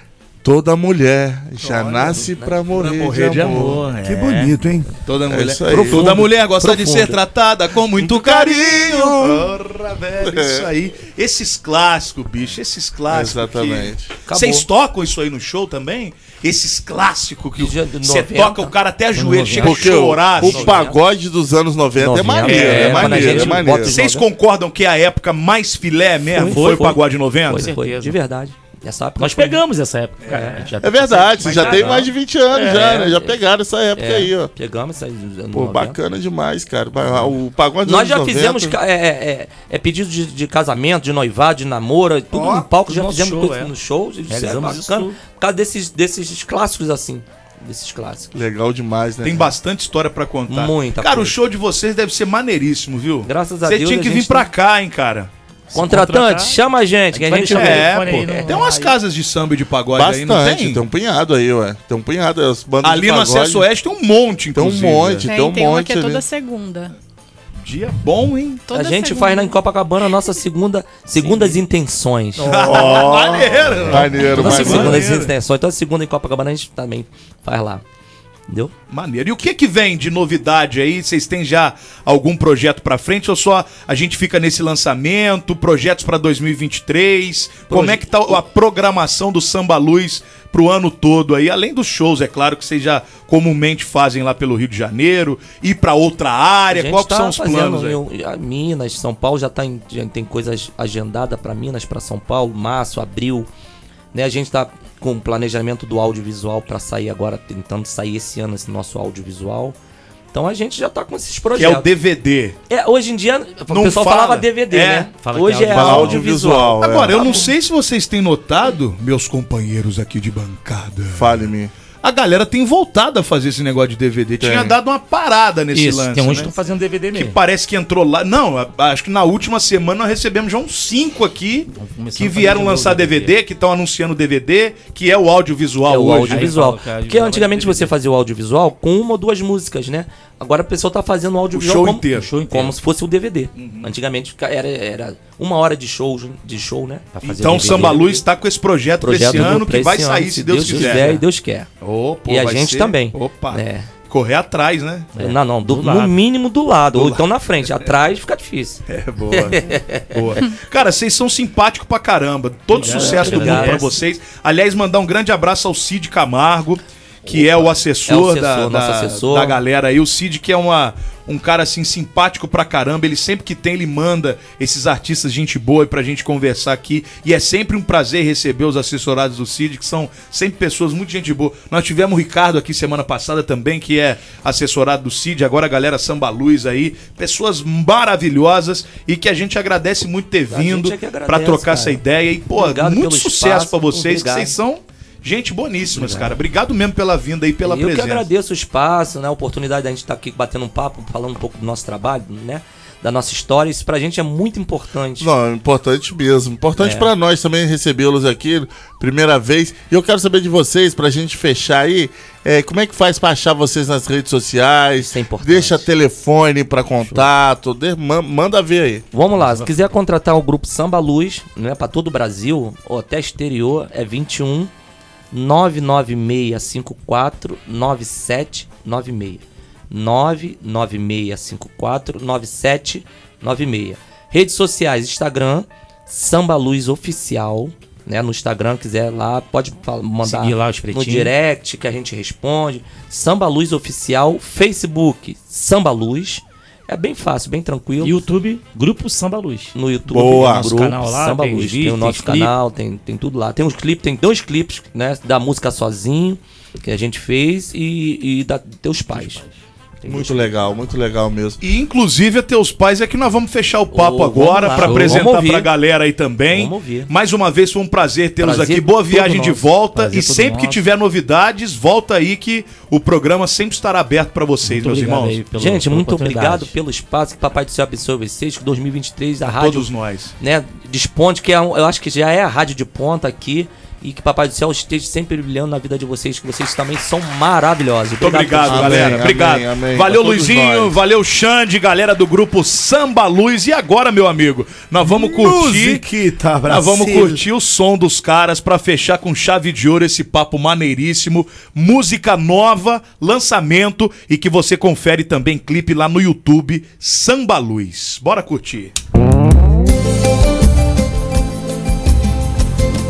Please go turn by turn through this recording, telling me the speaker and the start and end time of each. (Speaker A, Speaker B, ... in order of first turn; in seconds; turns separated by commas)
Speaker A: 0.4-3.8, Speaker B: 1.7-2.1, Speaker C: 2.1-2.6, Speaker B: 2.7-20.7, Speaker D: 4.0-4.9, Speaker A: 5.3-6.1, Speaker C: 5.7-7.2, Speaker A: 8.0-9.5, Speaker A: 10.2-10.7, Speaker A: 13.1-14.1, Speaker C: 14.3-14.7, Speaker C: 17.6-18.7, Speaker E: 19.1-20.8, Speaker A: 19.6-23.9, Speaker C: 20.4-21.0, Speaker C: 22.0-24.2, Speaker E: 22.4-23.7, Speaker B: 23.7-27.7, Speaker E: 26.3-27.0, Speaker C: 26.3-29.6, Speaker E: 27.5-28.2, Speaker E: 29.2-33.1, Speaker B: 30.2-30.6, Speaker C: 30.3-30.7, Speaker A: 30.8-34.5, Speaker C: 31.3-33.4, Speaker C: 33.9-36.0, Speaker A: 35.5-38.8, Speaker C: 37.8-48.3, Speaker E: 42.3-43.7, Speaker E: 44.3-45.2, Speaker A: 48.3-49.5, Speaker B: 49.2-55.3, Speaker C: 50.5-51.4, Speaker C: 53.2-54.5, Speaker E: 55.7-56.6, Speaker C: 55.7-58.5, Speaker E: 57.1-59.0, Speaker B: 57.5-60.8, Speaker A: 59.9-63.6, Speaker B: 62.8-65.3, Speaker A: 64.5-66.2, Speaker F: 65.2-66.9, Speaker B: 67.6-68.6, Speaker F: 68.7-69.6, Speaker C: 68.7-73.0, Speaker E: 71.2-71.6, Speaker B: 72.4-75.3, Speaker A: 72.5-75.0, Speaker C: 74.3-77.8, Speaker E: 74.4-74.9, Speaker B: 78.9-98.0, Speaker C: 87.7-88.4, Speaker C: 96.7-103.5, Speaker C: 104.1-109.8, Speaker C: 110.3-111.9, Speaker B: 111.5-112.6, Speaker C: 112.7-117.5, Speaker B: 113.7-115.1, Speaker E: 115.1-116.2, Speaker A: 115.7-117.4, Speaker B: 116.8-121.5, Speaker A: 121.1-121.7, Speaker B: 122.0-126.5, Speaker A: 124.4-124.7, Speaker E: 125.7-127.4, Speaker B: 127.1-136.5, Speaker E: 131.7-133.3, Speaker C: 135.8-148.2, Speaker E: 136.1-137.9, Speaker B: 141.5-142.3, Speaker E: 142.1-142.8, Speaker B: 143.6-143.9, Speaker E: 147.2-148.1, Speaker B: 147.2-151.2, Speaker C: 149.0-151.7, Speaker E: 150.7-151.2, Speaker B: 151.8-155.1, Speaker C: 152.3-153.9, Speaker E: 155.1-156.2, Speaker C: 155.2-158.8, Speaker B: 156.9-157.2, Speaker B: 158.9-198.3, Speaker C: 159.3-160.1, Speaker E: 162.7-164.0, Speaker C: 162.8-163.9, Speaker C: 167.2-169.6, Speaker C: 190.5-192.0, Speaker C: 192.5-194.6, Speaker C: 195.9-196.3, Speaker C: 197.6-205.3, Speaker A: 205.2-219.1, Speaker C: 206.8-207.1, Speaker C: 215.1-215.9, Speaker C: 219.1-224.7, Speaker E: 219.3-219.8, Speaker C: 225.3-248.2, Speaker E: 240.2-241.3, Speaker E: 248.0-249.8, Speaker C: 249.7-259.4, Speaker A: 250.1-250.7, Speaker E: 250.3-252.5, Speaker E: 259.1-259.6, Speaker C: 260.0-260.5, Speaker A: 260.0-261.6, Speaker B: 261.6-275.4, Speaker C: 263.9-265.7, Speaker E: 264.8-265.3, Speaker C: 266.5-267.1, Speaker C: 268.4-269.8, Speaker E: 270.0-270.8, Speaker E: 274.6-276.7, Speaker C: 275.5-289.2, Speaker B: 279.5-280.3, Speaker B: 288.2-296.0, Speaker A: 288.6-291.0, Speaker D: 295.0-297.4, Speaker B: 296.7-308.9